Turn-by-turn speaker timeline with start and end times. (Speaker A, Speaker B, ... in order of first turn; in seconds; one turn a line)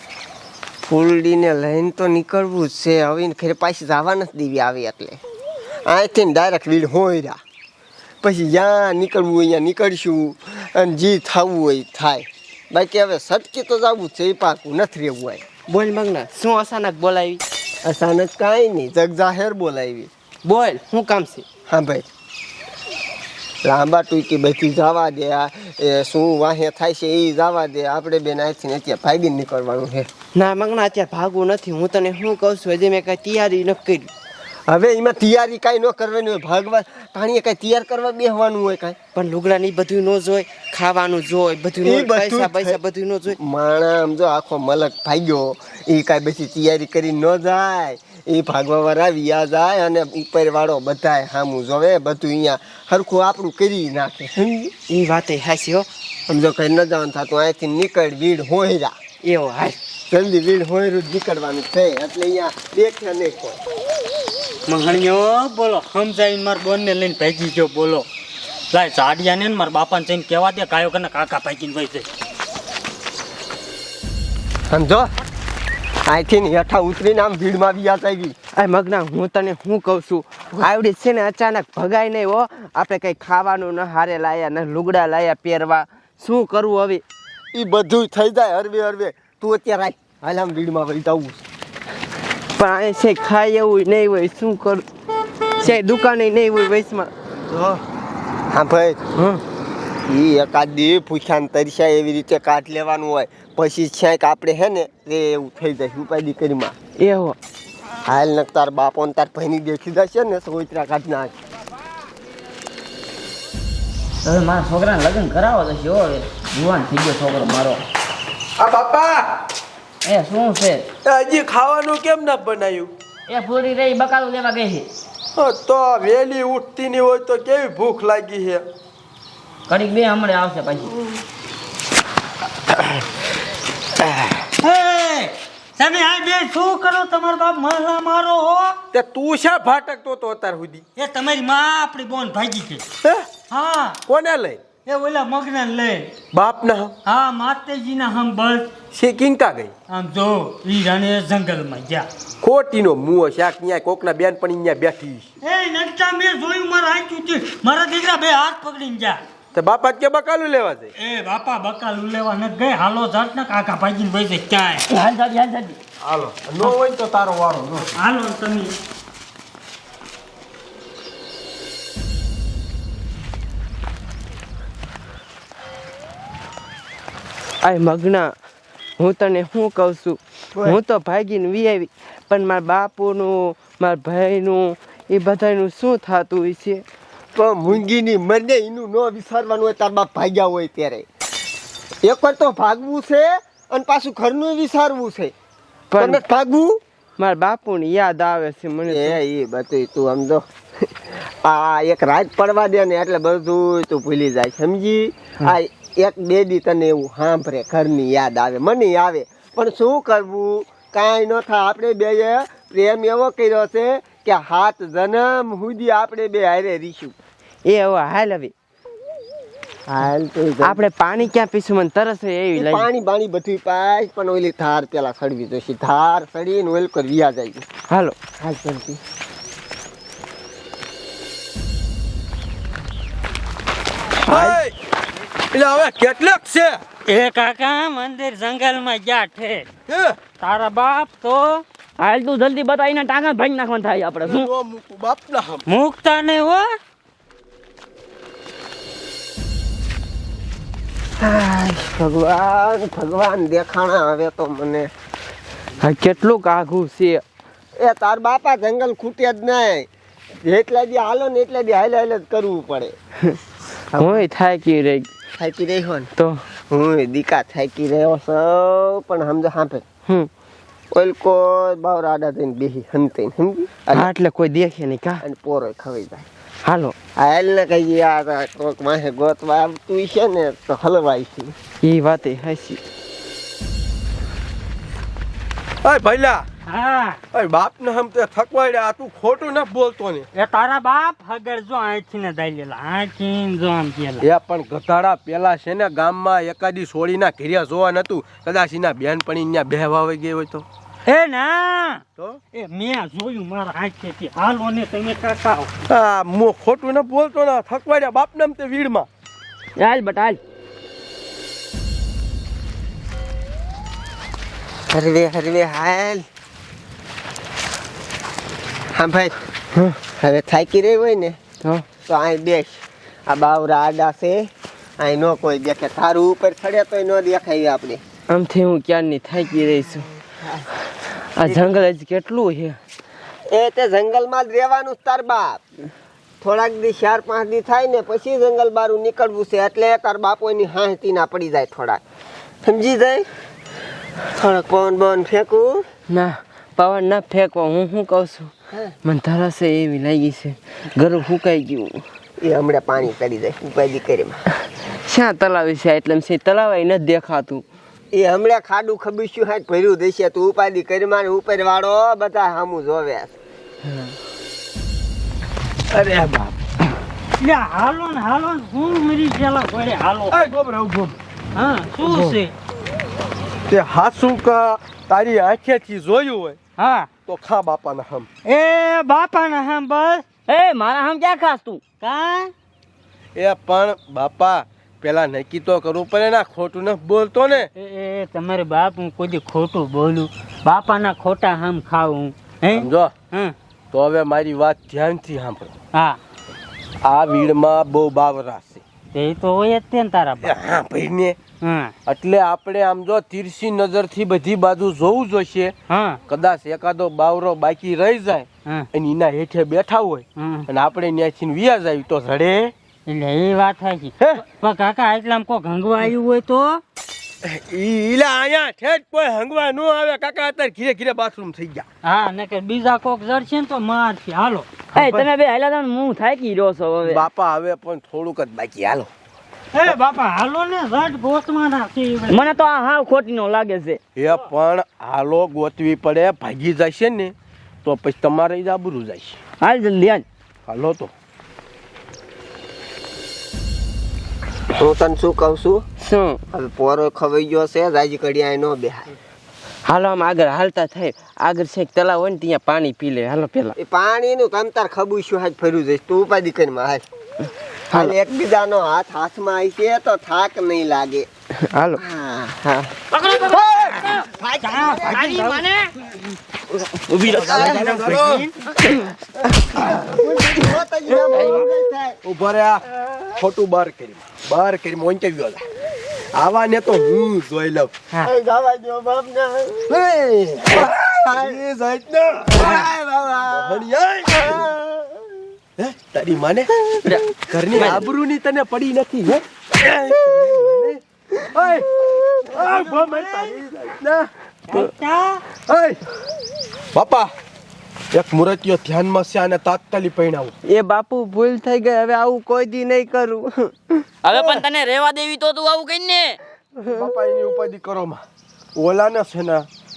Speaker A: 0.8-5.2
Speaker A: 5.9-7.4
Speaker A: 8.2-15.4
Speaker B: 15.7-17.4
Speaker A: 17.8-20.1
Speaker B: 20.4-21.5
Speaker A: 21.7-22.1
Speaker A: 23.6-30.1
Speaker B: 30.3-34.1
Speaker A: 34.7-39.0
Speaker B: 39.1-43.4
Speaker A: 41.8-54.7
Speaker B: 54.9-55.9
Speaker A: 56.3-58.9
Speaker B: 59.2-59.8
Speaker A: 60.1-63.6
Speaker C: 64.7-68.1
Speaker C: 68.7-72.1
Speaker A: 74.7-75.1
Speaker A: 76.1-78.4
Speaker B: 78.5-87.0
Speaker A: 87.5-91.5
Speaker B: 92.6-94.8
Speaker B: 95.6-97.1
Speaker A: 98.5-99.0
Speaker B: 99.2-99.4
Speaker A: 100.1-106.8
Speaker B: 107.0-107.4
Speaker A: 108.1-111.3
Speaker D: 114.2-117.8
Speaker E: 118.6-119.3
Speaker D: 120.0-120.9
Speaker E: 121.0-122.9
Speaker D: 123.3-124.9
Speaker E: 125.4-128.6
Speaker D: 129.7-130.9
Speaker C: 134.6-138.8
Speaker E: 138.9-140.9
Speaker C: 141.0-142.8
Speaker C: 143.5-144.0
Speaker E: 144.1-144.7
Speaker C: 144.8-146.1
Speaker E: 146.3-146.9
Speaker C: 147.1-148.7
Speaker E: 148.9-149.7
Speaker C: 149.9-152.1
Speaker E: 152.4-155.3
Speaker C: 155.4-159.2
Speaker E: 159.5-160.9
Speaker C: 161.0-164.9
Speaker D: 164.9-165.8
Speaker E: 166.0-167.9
Speaker C: 168.0-168.7
Speaker B: 177.6-178.3
Speaker B: 179.0-186.8
Speaker A: 187.3-191.1
Speaker A: 192.0-195.3
Speaker B: 195.9-196.2
Speaker A: 196.0-196.8
Speaker B: 197.2-199.2
Speaker A: 198.9-217.2
Speaker B: 217.7-218.5
Speaker A: 219.9-220.8
Speaker B: 220.6-222.9
Speaker A: 222.6-227.7
Speaker B: 227.9-228.2
Speaker A: 228.4-229.0
Speaker E: 234.3-234.8
Speaker E: 235.5-236.8
Speaker C: 237.1-239.7
Speaker E: 239.9-240.2
Speaker C: 240.4-241.6
Speaker D: 242.0-244.5
Speaker E: 244.2-245.6
Speaker C: 245.7-246.8
Speaker A: 251.2-254.9
Speaker B: 255.8-257.2
Speaker A: 257.8-259.9
Speaker A: 260.4-262.9
Speaker A: 263.9-264.2
Speaker B: 263.9-265.1
Speaker A: 265.4-266.1
Speaker B: 266.2-266.4
Speaker A: 266.7-269.9
Speaker A: 270.9-274.1
Speaker B: 273.9-275.2
Speaker A: 275.2-276.3
Speaker B: 276.6-277.0
Speaker A: 277.2-281.5
Speaker B: 281.8-282.8
Speaker E: 285.8-286.5
Speaker C: 286.7-287.2
Speaker E: 287.3-290.3
Speaker C: 290.4-294.3
Speaker E: 294.2-300.7
Speaker C: 301.1-305.7
Speaker E: 305.9-309.1
Speaker D: 309.8-310.4
Speaker A: 314.9-316.2
Speaker A: 318.9-319.3
Speaker A: 320.1-321.4
Speaker B: 321.6-321.9
Speaker A: 322.1-328.0
Speaker B: 328.3-330.1
Speaker B: 331.3-332.8
Speaker A: 331.4-331.7
Speaker A: 333.5-335.6
Speaker A: 336.4-342.0
Speaker A: 342.6-343.3
Speaker A: 344.4-345.9
Speaker B: 346.1-348.5
Speaker B: 349.0-352.1
Speaker A: 352.4-354.4
Speaker B: 355.1-357.6
Speaker A: 358.1-363.4
Speaker E: 365.9-366.6
Speaker C: 367.4-370.4
Speaker E: 370.3-371.2
Speaker C: 371.6-372.5
Speaker B: 372.1-372.3
Speaker E: 373.7-376.6
Speaker C: 376.8-377.1
Speaker E: 377.3-378.3
Speaker C: 378.4-380.2
Speaker D: 380.5-381.8
Speaker C: 382.0-382.5
Speaker E: 383.4-387.7
Speaker C: 387.6-393.5
Speaker E: 392.7-393.1
Speaker E: 393.9-395.7
Speaker E: 397.0-398.8
Speaker C: 399.1-400.6
Speaker E: 400.4-401.4
Speaker C: 401.6-401.9
Speaker E: 402.1-405.7
Speaker C: 405.9-406.2
Speaker E: 406.3-412.7
Speaker C: 410.4-410.7
Speaker C: 413.1-416.8
Speaker E: 417.4-421.9
Speaker C: 422.0-424.8
Speaker D: 424.9-427.2
Speaker E: 424.9-425.3
Speaker E: 427.0-429.1
Speaker C: 429.7-432.5
Speaker D: 432.3-434.0
Speaker E: 434.2-439.4
Speaker D: 439.6-440.2
Speaker E: 440.7-441.1
Speaker A: 444.8-445.9
Speaker B: 446.0-446.4
Speaker A: 446.5-449.1
Speaker B: 449.9-453.8
Speaker A: 453.8-457.0
Speaker A: 457.9-461.3
Speaker B: 461.6-462.0
Speaker A: 462.0-463.0
Speaker C: 463.2-465.6
Speaker A: 464.1-465.2
Speaker D: 464.8-466.1
Speaker D: 466.7-467.8
Speaker E: 467.3-468.5
Speaker C: 467.4-468.6
Speaker A: 469.9-472.2
Speaker E: 472.2-472.9
Speaker E: 473.4-475.6
Speaker E: 476.4-478.0
Speaker A: 478.2-480.0
Speaker E: 479.9-482.9
Speaker A: 480.7-481.6
Speaker A: 482.5-485.4
Speaker E: 483.5-484.7
Speaker E: 485.8-486.7
Speaker E: 487.5-491.9
Speaker B: 487.7-488.0
Speaker E: 492.4-494.3
Speaker C: 492.6-493.2
Speaker C: 494.7-495.4
Speaker E: 495.7-496.0
Speaker E: 496.9-497.3
Speaker E: 498.1-500.5
Speaker B: 500.6-504.1
Speaker D: 504.2-506.4
Speaker E: 504.3-504.6
Speaker E: 506.8-508.2
Speaker E: 508.8-509.7